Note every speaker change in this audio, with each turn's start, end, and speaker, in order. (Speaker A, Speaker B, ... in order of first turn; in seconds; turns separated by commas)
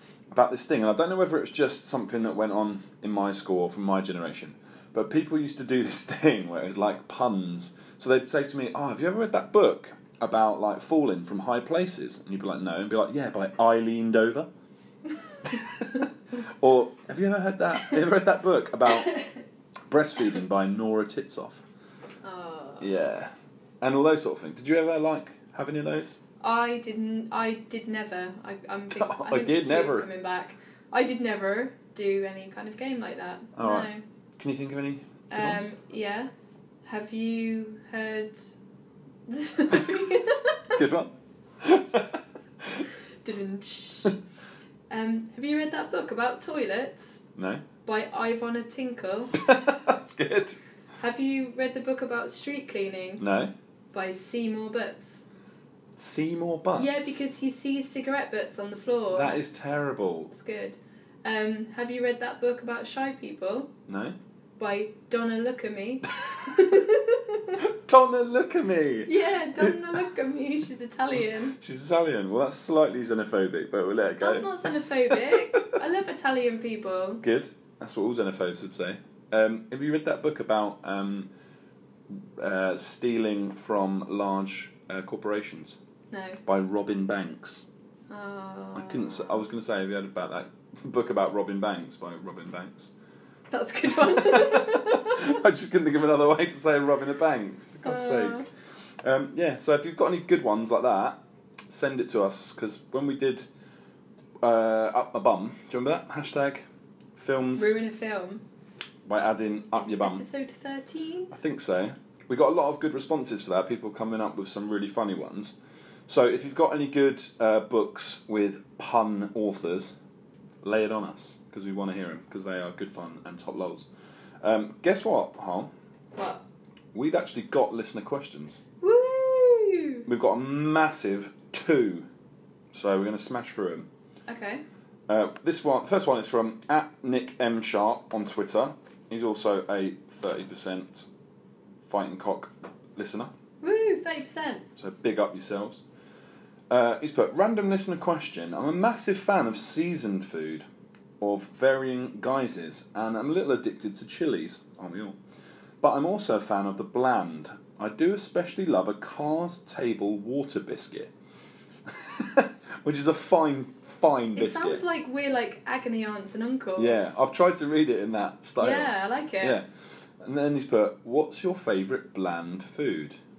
Speaker A: 0.3-14.5, Speaker A: 15.4-16.1, Speaker A: 16.6-19.2, Speaker B: 19.1-19.3, Speaker A: 19.9-21.6, Speaker B: 22.2-23.0, Speaker A: 22.8-26.2, Speaker B: 26.4-34.0, Speaker A: 28.9-30.1, Speaker A: 33.6-35.6, Speaker B: 35.3-36.3, Speaker B: 36.9-38.5, Speaker B: 39.3-40.8, Speaker A: 40.7-42.9, Speaker B: 43.2-44.2, Speaker B: 44.9-47.2, Speaker A: 47.4-47.6, Speaker B: 47.8-49.4, Speaker A: 49.4-50.6, Speaker B: 51.0-53.2, Speaker A: 53.2-53.5, Speaker B: 53.9-55.2, Speaker A: 56.0-57.2, Speaker B: 56.8-59.4, Speaker A: 59.1-60.3, Speaker B: 60.3-63.7, Speaker A: 63.9-64.2, Speaker B: 64.6-67.6, Speaker A: 67.6-69.9, Speaker B: 69.1-71.6, Speaker A: 71.5-75.7, Speaker B: 74.2-77.2, Speaker A: 77.2-81.3, Speaker A: 82.1-85.8, Speaker B: 86.1-86.4, Speaker A: 86.5-87.7, Speaker B: 88.1-89.4, Speaker A: 88.7-92.9, Speaker B: 93.5-95.2, Speaker A: 93.9-98.5, Speaker B: 97.8-98.5, Speaker A: 99.0-103.5, Speaker A: 104.4-106.6, Speaker A: 107.2-107.8, Speaker B: 107.6-108.4, Speaker A: 109.1-110.2, Speaker B: 109.8-111.3, Speaker A: 111.3-115.5, Speaker A: 116.1-120.0, Speaker A: 120.6-123.9, Speaker A: 124.4-125.7, Speaker B: 126.1-126.4, Speaker A: 126.9-128.6, Speaker B: 128.8-130.1, Speaker A: 130.1-132.1, Speaker A: 132.7-133.9, Speaker B: 134.3-134.6, Speaker A: 135.1-141.1, Speaker A: 141.8-143.3, Speaker B: 143.6-144.7, Speaker A: 144.8-145.8, Speaker A: 146.7-150.7, Speaker A: 151.2-155.2, Speaker A: 155.8-161.1, Speaker A: 161.9-164.8, Speaker B: 164.3-167.1, Speaker A: 166.8-169.7, Speaker B: 168.6-169.6, Speaker A: 170.2-173.2